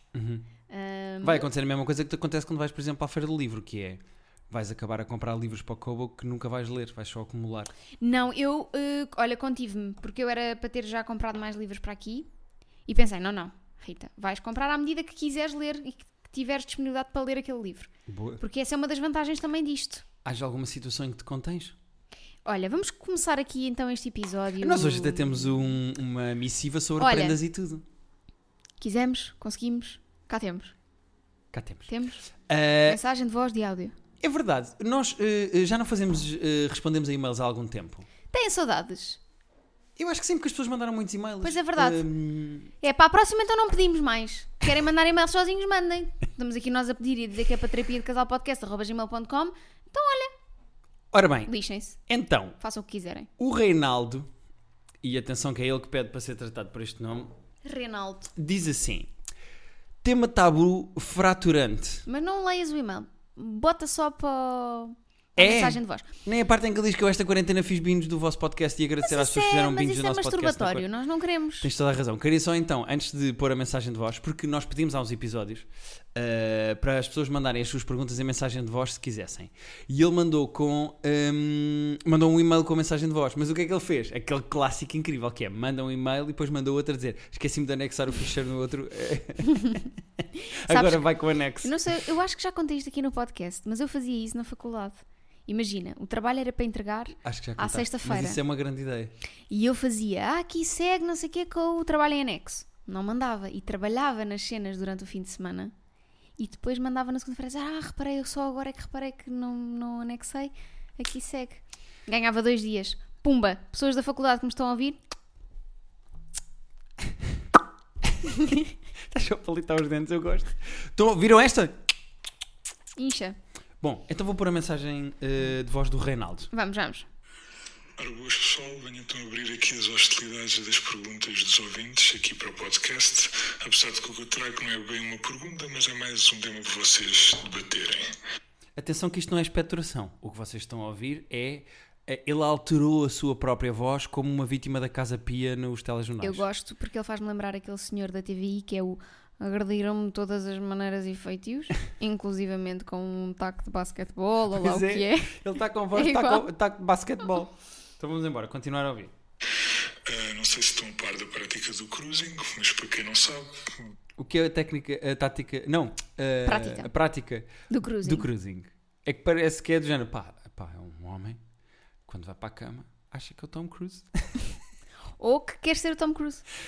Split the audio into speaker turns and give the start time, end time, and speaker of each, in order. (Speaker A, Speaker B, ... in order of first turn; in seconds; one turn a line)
Speaker A: 0.1-0.5
Speaker B: 0.7-1.5
Speaker A: 1.2-7.7
Speaker B: 8.0-12.3
Speaker B: 12.9-20.1
Speaker A: 18.1-18.4
Speaker A: 20.2-21.8
Speaker B: 22.4-25.7
Speaker A: 24.6-27.8
Speaker B: 27.0-27.4
Speaker B: 28.8-30.8
Speaker A: 31.5-31.9
Speaker B: 31.9-32.2
Speaker A: 32.5-33.0
Speaker B: 32.9-34.0
Speaker A: 34.2-38.1
Speaker B: 38.3-39.2
Speaker A: 40.0-42.7
Speaker B: 41.4-42.1
Speaker B: 42.8-50.3
Speaker A: 51.1-51.5
Speaker B: 51.5-52.0
Speaker A: 52.1-52.6
Speaker B: 52.6-53.3
Speaker A: 53.4-54.3
Speaker A: 55.0-57.3
Speaker B: 57.6-58.3
Speaker A: 58.4-59.1
Speaker A: 60.0-62.0
Speaker B: 62.1-66.1
Speaker A: 65.4-70.9
Speaker B: 69.0-71.7
Speaker A: 71.6-92.0
Speaker B: 89.5-91.0
Speaker B: 91.6-98.4
Speaker A: 97.2-99.1
Speaker B: 99.5-105.7
Speaker B: 106.4-115.0
Speaker A: 118.3-121.8
Speaker B: 123.0-123.4
Speaker A: 123.8-126.5
Speaker B: 126.5-127.1
Speaker C: 128.0-138.1
Speaker A: 138.8-146.4
Speaker B: 146.2-155.4
Speaker A: 154.5-159.1
Speaker B: 155.9-156.5
Speaker C: 160.1-163.9
Speaker A: 164.2-171.4
Speaker B: 166.4-166.9
Speaker B: 167.7-168.3
Speaker A: 172.1-174.4
Speaker B: 175.2-176.4